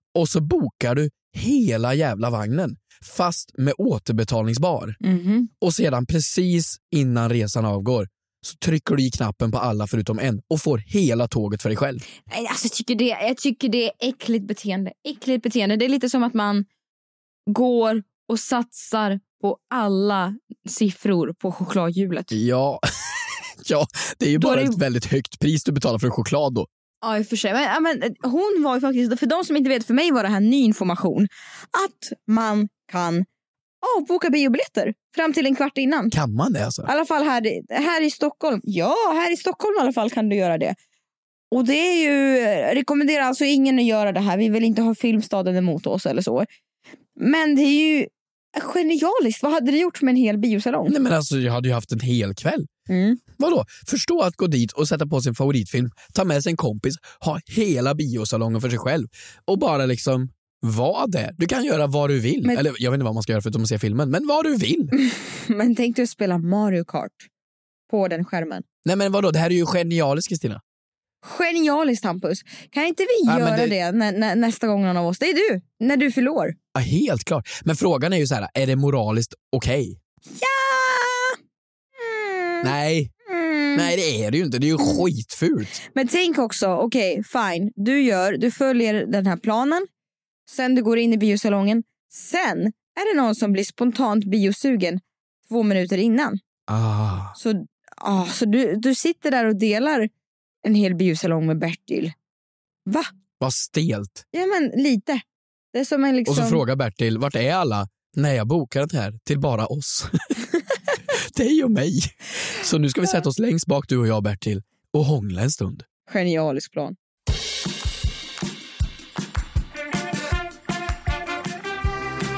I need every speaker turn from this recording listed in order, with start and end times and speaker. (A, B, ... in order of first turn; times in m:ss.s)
0:00.1-0:05.0 A
0:05.0-0:05.5 B
0:05.6-0:12.0 A
0:12.3-0:16.7 B
0:17.5-0:22.3 B
0:22.3-0:26.7 A
0:24.4-0:24.8 B
0:27.0-0:33.2 B
0:33.8-0:36.1 B
0:36.1-0:36.9 A
0:36.8-0:40.8 B
0:41.5-0:46.5 B
0:47.2-0:50.9 B
0:50.8-0:52.7 A
0:52.9-0:53.2 B
0:53.4-1:04.9 A
1:04.9-1:07.3 B
1:07.9-1:08.6 B
1:08.8-1:10.6 A
1:11.2-1:16.6 B
1:13.3-1:13.7 A
1:16.7-1:20.0 A
1:20.3-1:21.4 B
1:22.0-1:22.7 B
1:22.6-1:23.1 A
1:23.3-1:23.9 B
1:23.7-1:25.8 A
1:25.9-1:29.9 B
1:30.5-1:36.4 B
1:36.7-1:37.3 A
1:37.4-1:40.1 B
1:40.6-1:42.1 B
1:42.8-1:43.1 B
1:43.4-1:44.2 A
1:44.3-1:45.2 B
1:45.7-1:46.6 B
1:46.2-1:50.3 A
1:51.1-1:55.8 A
1:56.1-1:57.0 B